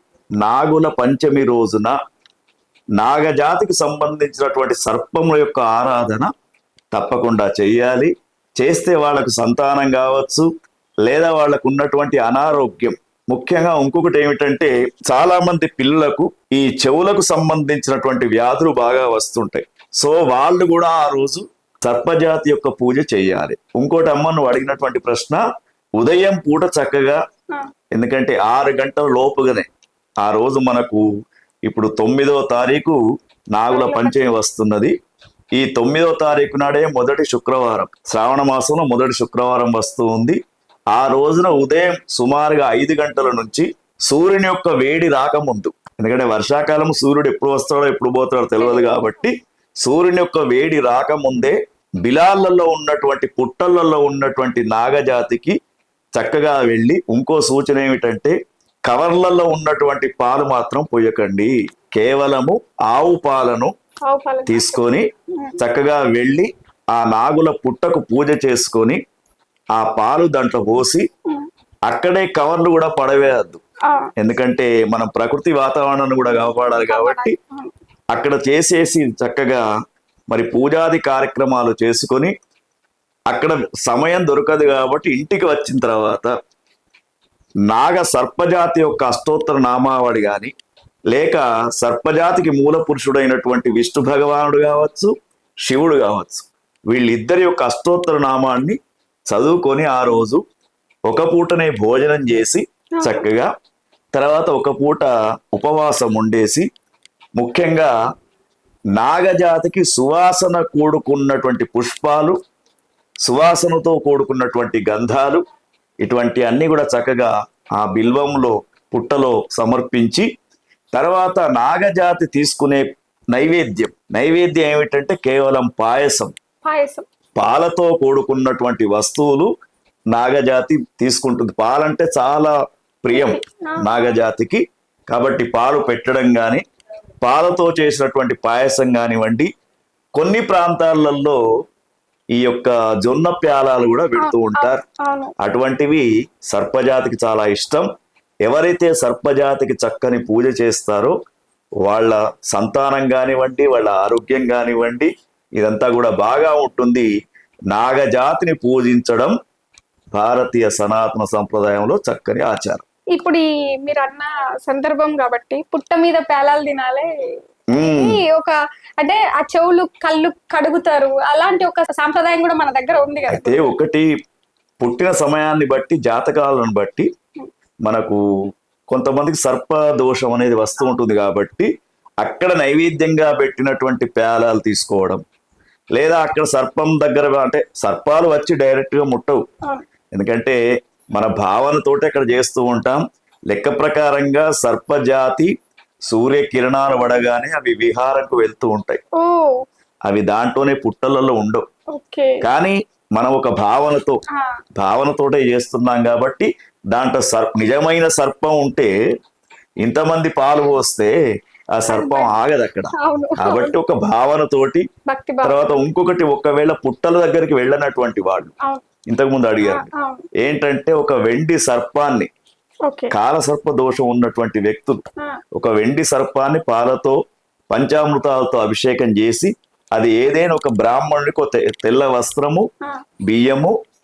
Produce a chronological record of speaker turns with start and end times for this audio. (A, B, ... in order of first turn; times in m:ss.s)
0:00.4-0:02.0 A
0:03.0-0:06.3 A
0:06.9-0:10.5 A
0:11.1-0:25.4 A
0:26.0-0:27.2 A
0:27.9-0:29.7 A
0:30.2-0:31.0 A
0:31.7-0:33.0 A
0:33.6-0:34.9 A
0:33.7-0:34.4 B
0:35.6-0:40.4 A
0:40.9-0:55.6 A
0:48.6-0:49.0 B
0:56.2-0:58.4 A
0:58.9-1:03.7 A
1:04.1-1:05.6 B
1:04.5-1:09.0 A
1:09.8-1:11.1 A
1:11.9-1:13.6 A
1:14.2-1:17.4 A
1:16.5-1:17.7 B
1:18.1-1:19.6 A
1:20.3-1:22.3 A
1:23.3-1:26.3 A
1:27.7-1:30.5 A
1:31.1-1:35.1 A
1:35.6-1:38.8 A
1:39.3-1:40.4 A
1:41.1-1:43.5 A
1:43.0-1:43.3 B
1:44.1-1:46.7 A
1:47.4-1:47.9 A
1:49.0-1:52.4 A
1:53.2-1:55.4 A
1:56.0-2:00.3 A
2:00.9-2:06.3 A
2:06.6-2:07.0 B
2:07.4-2:09.5 A
2:10.1-2:16.6 A
2:13.1-2:14.2 B
2:17.2-2:19.5 A
2:20.2-2:21.4 A
2:22.4-2:24.8 A
2:24.2-2:25.3 B
2:25.4-2:27.9 A
2:28.4-2:31.2 A
2:31.9-2:37.1 A
2:37.7-2:39.3 A
2:40.1-2:42.8 A
2:43.2-2:47.1 B
2:47.7-2:48.2 A
2:47.8-2:53.7 B
2:53.3-2:54.1 A
2:54.8-2:57.1 A
2:57.9-2:58.2 A
2:58.9-3:01.7 A
3:02.2-3:05.2 A
3:06.0-3:09.4 A
3:10.1-3:10.6 A
3:11.2-3:15.5 A
3:16.1-3:19.0 A
3:19.2-3:19.6 B
3:20.1-3:21.6 A
3:21.9-3:22.4 B
3:22.4-3:24.2 A
3:24.8-3:28.9 A
3:29.8-3:31.2 A
3:31.8-3:34.8 A
3:31.9-3:32.4 B
3:33.0-3:33.7 B
3:35.1-3:35.6 B
3:35.4-3:38.5 A
3:39.1-3:39.9 A
3:39.6-3:40.3 B
3:40.4-3:42.3 A
3:42.9-3:43.1 B
3:43.1-3:45.0 A
3:45.6-3:47.2 A
3:47.7-3:52.7 A
3:53.3-3:53.7 A